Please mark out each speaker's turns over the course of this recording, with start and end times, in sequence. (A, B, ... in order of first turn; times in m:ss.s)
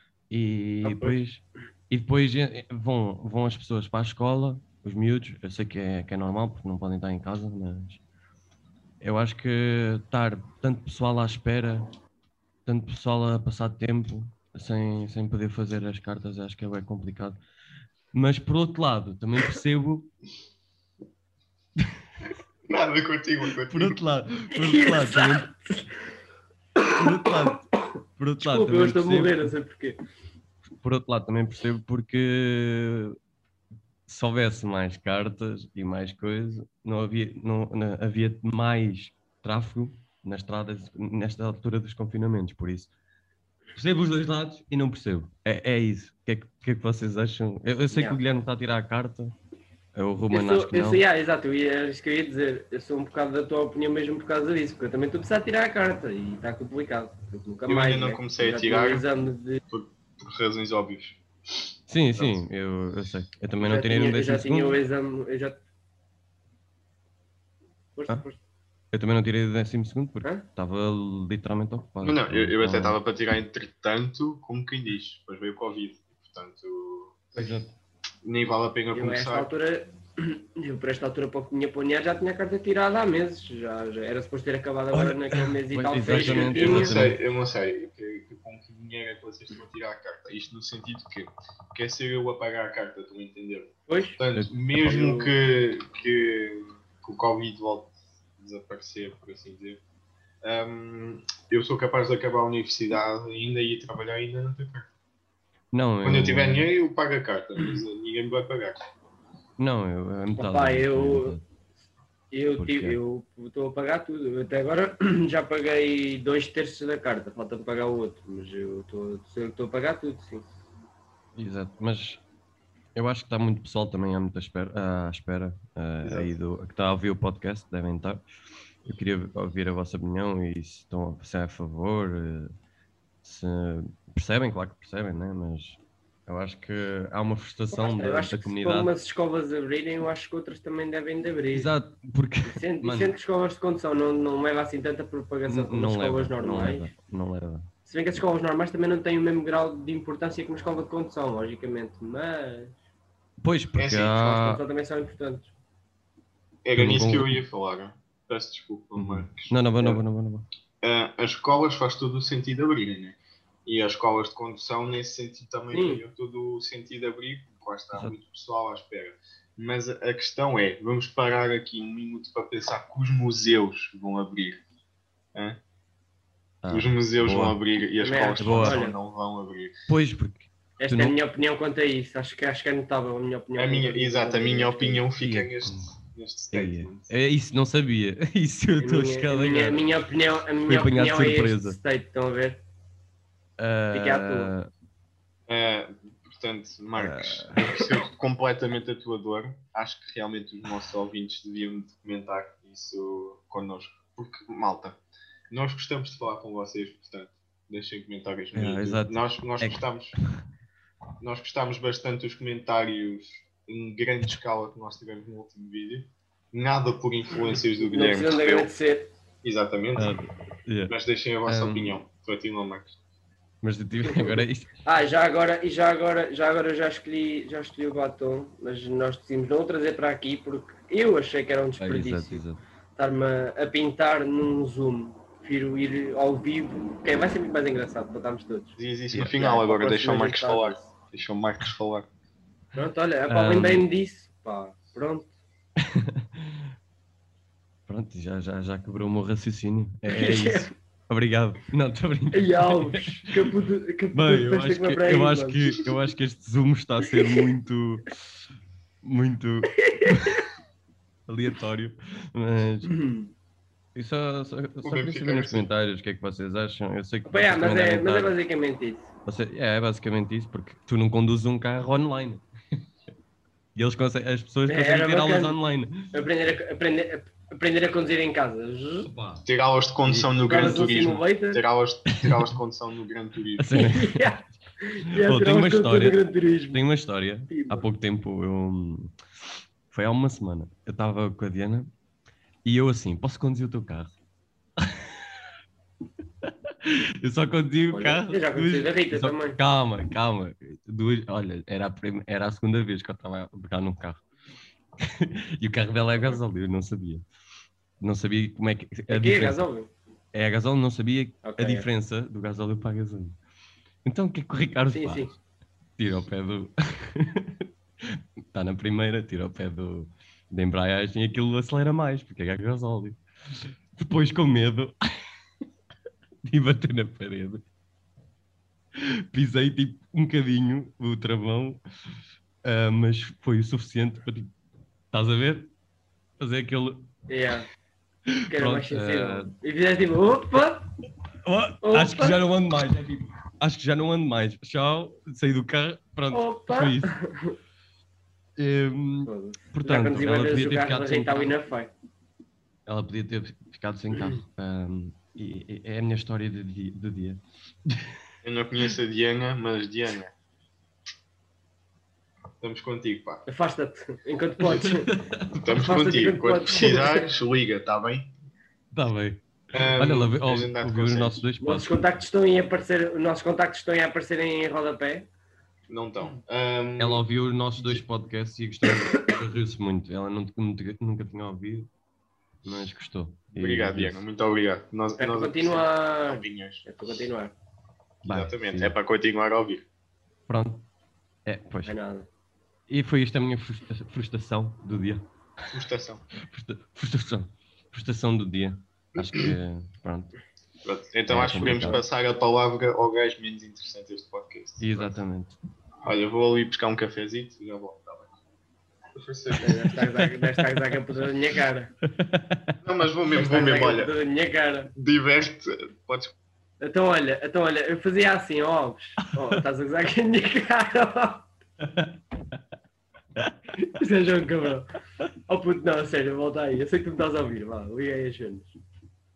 0:00.3-0:08.0 A
0:00.8-0:01.2 B
0:09.0-0:11.9 A
0:12.6-0:17.4 A
0:18.1-0:20.1 A
0:22.7-0:24.0 C
0:23.7-0:25.5 A
0:24.6-0:25.9 B
0:26.9-0:29.5 A
0:27.0-0:27.5 B
0:28.4-0:30.0 B
0:30.8-0:33.2 A
0:34.1-0:42.9 A
0:43.7-0:49.3 A
0:47.9-0:48.2 B
0:49.9-0:51.0 A
0:50.3-0:59.6 B
0:57.7-0:59.0 C
0:59.7-1:01.2 C
1:01.9-1:04.8 A
1:02.2-1:02.4 C
1:03.6-1:05.6 B
1:08.0-1:08.4 B
1:08.9-1:13.0 A
1:12.0-1:17.3 C
1:17.3-1:17.7 A
1:18.2-1:19.5 C
1:18.9-1:27.0 B
1:24.9-1:27.2 A
1:26.1-1:39.8 C
1:33.9-1:34.2 B
1:34.8-1:35.3 B
1:40.4-1:44.9 C
1:45.7-1:46.7 A
1:46.0-1:48.8 C
1:49.6-1:51.4 A
1:50.3-1:51.4 B
1:52.3-2:00.4 B
1:52.6-1:53.0 A
2:01.4-2:02.2 A
2:02.9-2:08.2 A
2:06.0-2:06.4 C
2:08.8-2:12.5 A
2:13.2-2:18.9 A
2:17.7-2:21.7 B
2:21.5-2:23.1 A
2:22.4-2:26.9 B
2:25.5-2:27.7 A
2:27.8-2:32.8 B
2:33.4-2:34.6 A
2:33.8-2:34.3 C
2:34.2-2:35.5 B
2:36.6-2:40.0 C
2:36.8-2:37.4 A
2:39.0-2:40.4 A
2:40.8-2:54.6 C
2:45.7-2:46.0 B
2:55.3-2:55.6 C
2:56.6-2:57.6 A
2:56.7-2:59.7 C
2:58.0-2:59.0 B
2:58.4-2:58.8 A
2:59.9-3:01.2 A
3:00.8-3:05.0 B
3:03.6-3:07.1 C
3:05.2-3:06.0 A
3:06.5-3:09.9 A
3:08.8-3:12.6 B
3:10.7-3:11.8 A
3:13.6-3:14.7 A
3:13.9-3:14.5 B
3:15.5-3:25.0 C
3:17.0-3:17.9 A
3:25.5-3:30.1 C
3:28.5-3:30.3 A
3:31.2-3:38.7 C
3:37.8-3:39.1 B
3:39.4-3:40.1 C
3:40.0-3:40.9 A
3:40.9-3:42.9 C
3:41.4-3:42.0 A
3:43.6-3:44.7 A
3:44.0-3:52.4 B
3:51.8-3:52.6 A
3:53.0-3:58.8 B
3:58.8-4:02.1 C
3:59.3-4:00.9 B
4:02.7-4:05.3 B
4:03.3-4:03.8 A
4:05.8-4:06.6 A
4:07.9-4:13.6 A
4:10.1-4:10.7 B
4:12.3-4:15.7 B
4:14.1-4:18.2 A
4:19.0-4:20.4 A
4:19.8-4:20.4 B
4:21.3-4:22.9 A
4:22.8-4:23.3 B
4:23.9-4:28.4 A
4:24.8-4:25.7 C
4:27.2-4:29.1 B
4:29.2-4:32.4 A
4:33.8-4:36.1 A
4:34.7-4:35.6 B
4:36.1-4:39.1 B
4:39.0-4:39.4 A
4:39.4-4:43.7 C
4:40.0-4:41.0 A
4:40.5-4:41.6 B
4:42.1-4:42.4 A
4:43.6-4:44.3 A
4:43.7-4:46.8 B
4:45.2-4:46.2 A
4:46.7-4:49.1 A
4:47.5-4:47.8 B
4:49.9-4:51.9 A
4:52.6-4:54.1 A
4:54.8-4:55.1 A
4:56.4-5:04.2 A
4:57.9-4:59.6 B
5:05.0-5:07.2 A
5:08.0-5:09.6 A
5:09.1-5:09.9 B
5:10.3-5:13.4 A
5:11.4-5:11.9 B
5:14.0-5:15.3 A
5:14.9-5:15.3 B
5:16.0-5:23.2 A
5:24.0-5:25.0 A
5:26.4-5:27.6 A
5:29.0-5:31.8 A
5:32.6-5:34.5 A
5:35.1-5:35.7 A
5:36.4-5:37.1 A
5:37.3-5:37.7 B
5:38.3-5:39.5 A
5:38.5-5:40.9 B
5:41.4-5:47.1 A
5:41.8-5:42.4 B
5:46.3-5:47.5 B
5:48.6-5:51.6 A
5:49.2-5:51.9 B
5:52.9-5:58.2 A
5:58.4-6:00.3 C
6:02.6-6:03.4 C
6:03.4-6:05.1 B
6:04.6-6:05.7 A
6:05.5-6:08.3 C
6:05.7-6:07.2 B
6:08.9-6:12.1 A
6:09.7-6:11.5 C
6:11.6-6:15.3 B
6:15.9-6:17.2 C
6:17.0-6:21.9 A
6:17.8-6:18.0 C
6:22.6-6:24.2 A
6:23.5-6:26.8 C
6:25.2-6:27.5 B
6:28.2-6:28.9 A
6:28.2-6:29.8 C
6:30.5-6:30.8 A
6:31.4-6:31.9 A
6:31.8-6:32.3 B
6:32.9-6:35.7 A
6:35.7-6:36.2 C
6:36.3-6:40.3 A
6:39.2-6:39.5 C
6:40.8-6:45.2 C
6:41.3-6:42.0 A
6:44.8-6:45.6 A
6:46.0-6:48.3 C
6:49.2-6:50.0 C
6:49.6-6:51.9 B
6:49.9-6:51.0 A
6:52.1-6:52.7 A
6:52.8-6:54.1 C
6:53.3-6:54.9 B
6:54.9-6:56.3 C
6:56.8-7:01.5 B
7:01.8-7:02.2 A
7:03.8-7:04.9 B
7:05.5-7:08.8 B